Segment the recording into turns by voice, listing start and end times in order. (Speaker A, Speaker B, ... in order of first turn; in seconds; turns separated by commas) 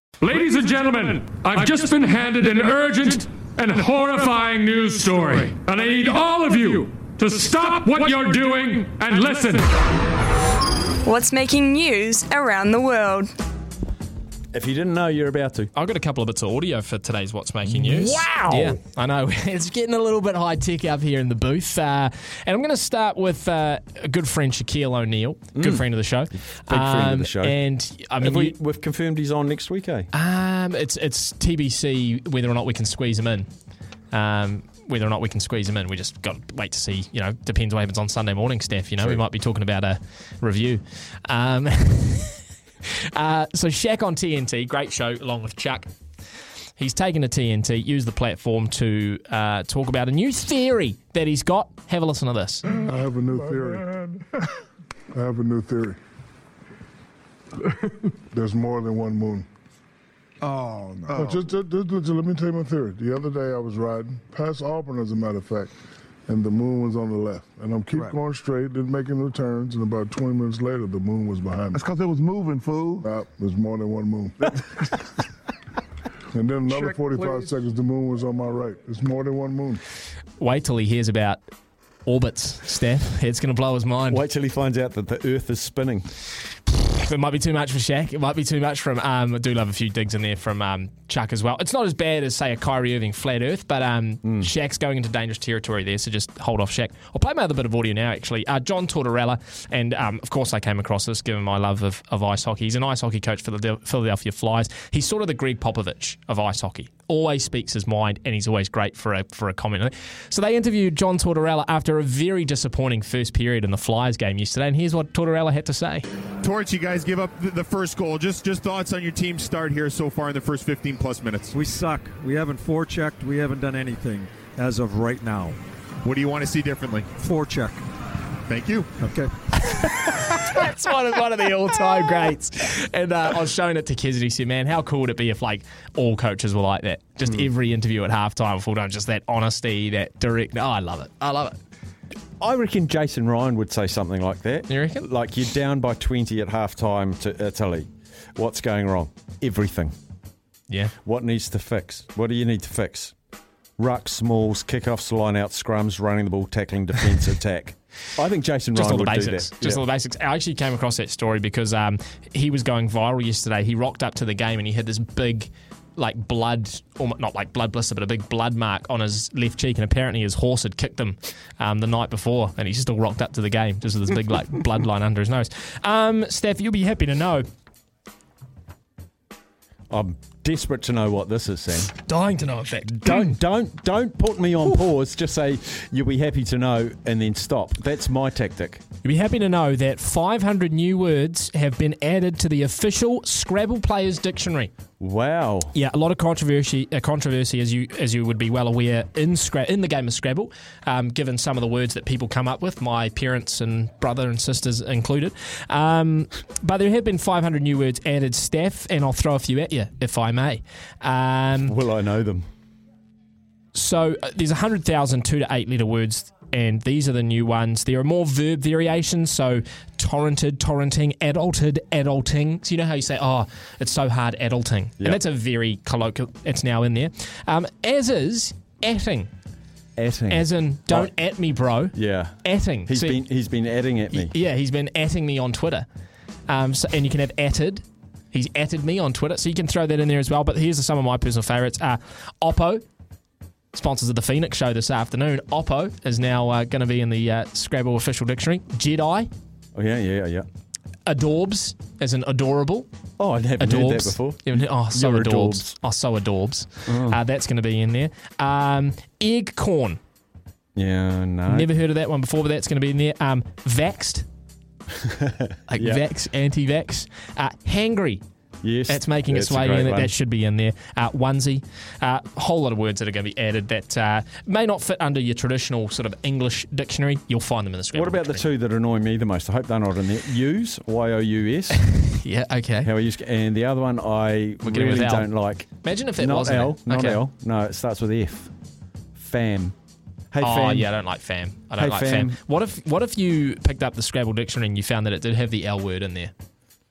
Speaker A: 0.2-9.7, Speaker B: 11.1-13.3, Speaker C: 14.5-15.7, Speaker D: 15.7-28.6, Speaker C: 17.7-18.8, Speaker C: 25.6-25.9, Speaker C: 26.6-27.6, Speaker C: 28.2-30.1, Speaker D: 30.1-33.5, Speaker D: 34.1-45.9, Speaker C: 39.0-39.2, Speaker D: 46.8-52.7, Speaker E: 52.8-53.9, Speaker E: 55.1-56.0, Speaker E: 58.3-59.5, Speaker F: 60.9-61.4, Speaker E: 61.0-65.7, Speaker E: 66.3-71.9, Speaker F: 71.7-73.1, Speaker E: 73.0-74.9, Speaker E: 76.3-79.8, Speaker F: 76.7-77.5, Speaker D: 80.4-81.5, Speaker D: 82.0-84.2, Speaker C: 84.1-86.1, Speaker D: 86.7-116.1, Speaker C: 94.2-94.5, Speaker G: 116.4-121.5, Speaker H: 121.5-125.6, Speaker G: 126.0-127.1, Speaker H: 127.2-127.8, Speaker G: 128.5-128.9, Speaker H: 129.0-129.3, Speaker D: 129.6-141.6, Speaker C: 142.4-149.9, Speaker D: 144.7-145.1, Speaker D: 150.7-150.9, Speaker C: 151.1-153.1, Speaker C: 153.8-159.8, Speaker D: 158.8-177.5, Speaker C: 179.9-181.9, Speaker D: 182.0-183.4, Speaker C: 183.0-188.8, Speaker D: 189.0-194.7, Speaker C: 195.0-195.7, Speaker D: 195.7-211.8, Speaker C: 211.7-212.5, Speaker D: 213.7-229.3, Speaker C: 230.0-231.1, Speaker D: 230.3-233.2, Speaker C: 231.9-234.3, Speaker D: 234.1-235.9, Speaker D: 236.5-242.8, Speaker D: 243.7-249.3, Speaker C: 249.8-250.5, Speaker D: 251.1-252.9, Speaker C: 253.2-255.8, Speaker D: 253.6-260.0, Speaker C: 256.9-257.2, Speaker C: 260.8-261.7, Speaker D: 261.5-264.3, Speaker C: 265.0-266.1, Speaker D: 265.7-268.2, Speaker C: 268.6-270.1, Speaker D: 268.9-278.4, Speaker C: 277.9-281.8, Speaker D: 281.8-282.9, Speaker C: 282.8-288.5, Speaker D: 284.6-287.2, Speaker C: 289.2-289.7, Speaker C: 290.3-290.9, Speaker D: 290.4-296.3, Speaker C: 291.8-292.4